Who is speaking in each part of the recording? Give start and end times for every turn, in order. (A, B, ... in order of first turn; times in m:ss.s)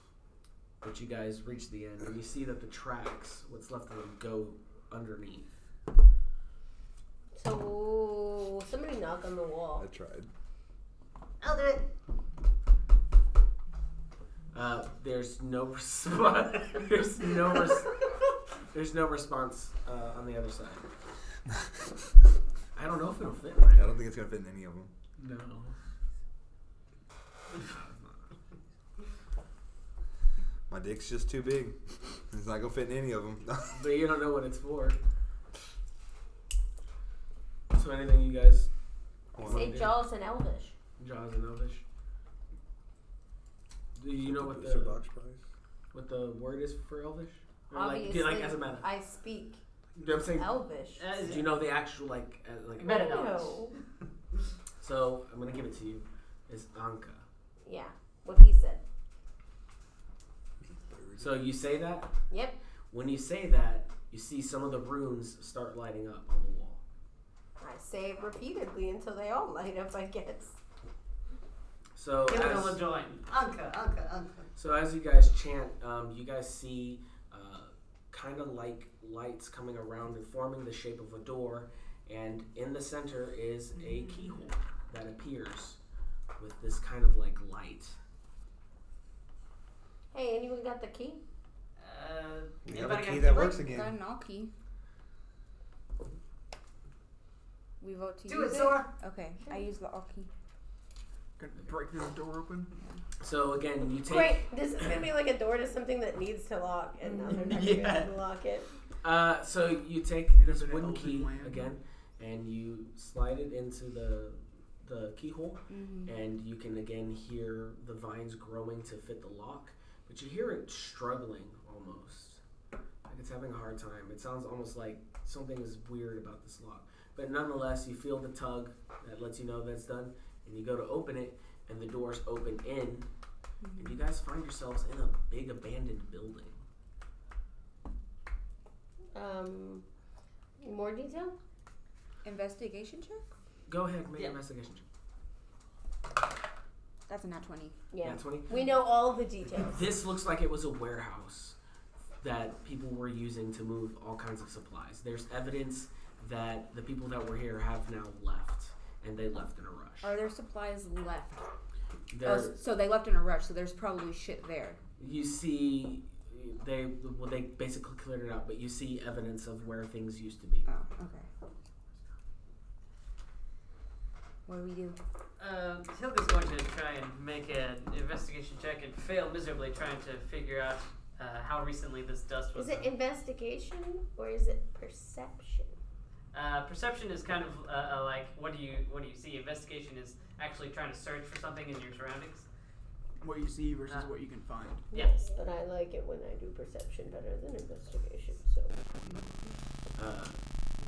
0:00.8-0:05.5 A
0:07.3-0:09.8 B
0:09.8-0:10.3 C
0:11.4-0:11.9 D
0:14.5-0:18.0 A
0:18.7-0:20.8 A
0:22.7-0:24.0 A
0:23.8-0:24.9 C
0:25.2-0:25.7 A
0:27.5-0:28.3 A
0:30.7-0:33.7 C
0:33.7-0:35.0 A
0:37.7-0:38.7 A
0:39.3-0:39.8 C
0:39.4-0:39.9 A
0:39.5-0:40.7 B
0:41.0-0:41.8 A
0:44.0-0:45.0 A
0:44.2-0:45.4 C
0:45.9-0:48.8 A
0:47.7-0:49.6 B
0:50.0-0:50.5 A
0:50.4-0:51.0 B
0:51.0-0:51.5 D
0:51.2-0:53.3 A
0:52.8-0:53.6 D
0:52.8-0:53.7 B
0:54.8-0:57.2 A
0:57.6-0:58.8 B
1:00.7-1:01.4 C
1:01.2-1:02.1 A
1:02.3-1:02.6 B
1:02.9-1:06.8 A
1:07.6-1:10.6 B
1:12.0-1:12.8 A
1:12.3-1:14.4 D
1:14.6-1:25.8 A
1:23.8-1:24.1 E
1:26.4-1:28.0 A
1:30.1-1:31.2 B
1:31.8-1:33.6 D
1:32.6-1:33.9 C
1:33.2-1:34.5 E
1:37.8-1:40.3 E
1:38.3-1:38.9 D
1:41.4-1:42.7 F
1:43.2-1:45.0 A
1:44.0-1:48.7 B
1:47.3-1:48.1 F
1:49.0-2:02.4 A
1:50.3-1:51.7 F
1:55.7-1:56.1 E
2:03.1-2:13.1 A
2:13.6-2:14.0 E
2:13.8-2:16.6 A
2:19.1-2:19.8 B
2:20.6-2:21.3 B
2:22.2-2:23.3 E
2:23.7-2:24.8 A
2:27.1-2:27.7 E
2:27.9-2:29.8 B
2:28.0-2:28.5 A
2:29.6-2:31.6 A
2:32.2-2:40.1 A
2:40.0-2:41.4 E
2:42.1-2:42.5 A
2:42.2-2:44.8 E
2:45.0-2:50.6 A
2:50.6-2:51.2 E
2:54.4-2:55.0 E
2:55.4-3:02.9 D
3:02.5-3:05.8 B
3:06.3-3:12.5 D
3:13.2-3:14.9 F
3:14.9-3:15.2 D
3:14.9-3:19.2 B
3:20.0-3:20.4 A